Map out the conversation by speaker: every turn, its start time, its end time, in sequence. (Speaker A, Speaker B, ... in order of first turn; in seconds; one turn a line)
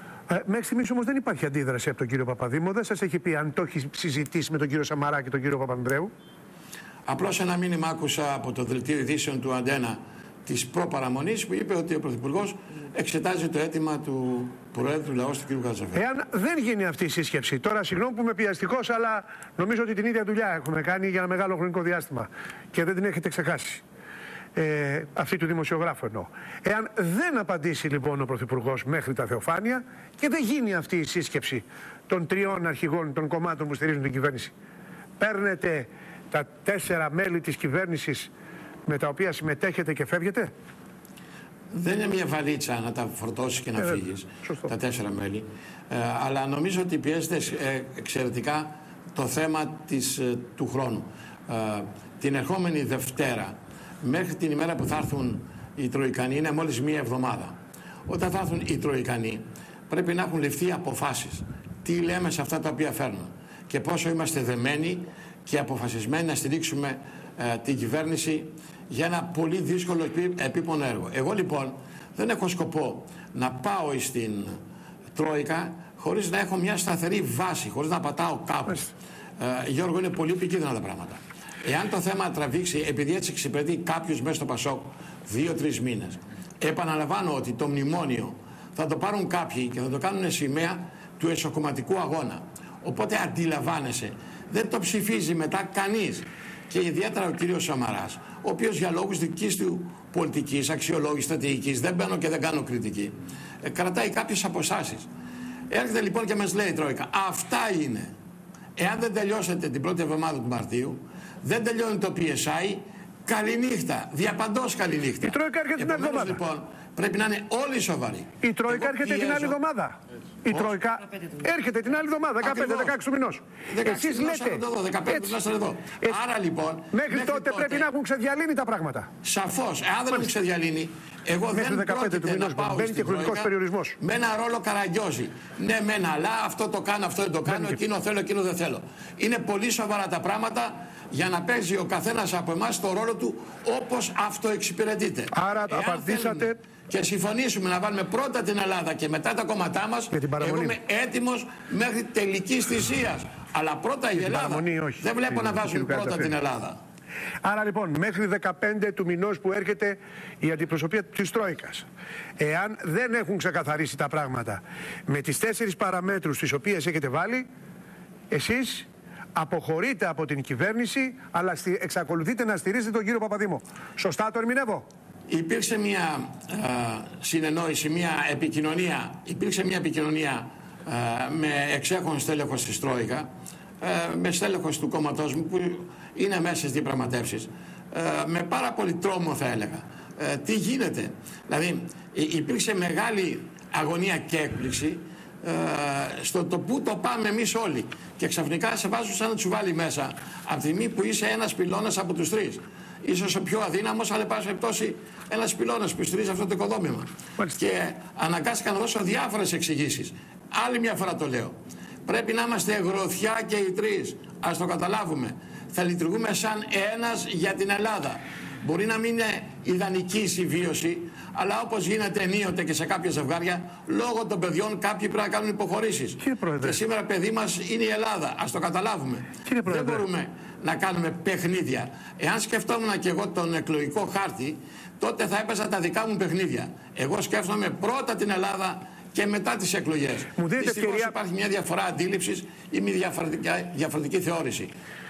Speaker A: 0.3-6.1
Speaker B: 7.1-16.0
Speaker A: 15.9-23.8
Speaker A: 24.6-34.5
Speaker A: 35.2-38.3
Speaker A: 38.9-40.5
Speaker B: 41.7-74.5
Speaker A: 43.8-44.7
Speaker B: 75.1-105.1
Speaker B: 105.7-108.1
Speaker B: 108.8-119.6
Speaker A: 115.2-116.4
Speaker A: 118.4-125.4
Speaker B: 120.5-120.8
Speaker B: 122.4-122.9
Speaker B: 123.7-127.9
Speaker A: 126.9-129.1
Speaker B: 129.2-156.8
Speaker A: 131.5-134.0
Speaker A: 137.5-137.8
Speaker A: 145.3-146.6
Speaker A: 150.1-150.8
Speaker A: 154.1-156.4
Speaker A: 157.4-161.9
Speaker A: 162.4-167.5
Speaker A: 168.3-174.9
Speaker B: 175.3-183.3
Speaker B: 183.8-211.6
Speaker B: 212.1-244.7
Speaker A: 226.2-226.8
Speaker A: 229.5-230.0
Speaker A: 240.4-241.2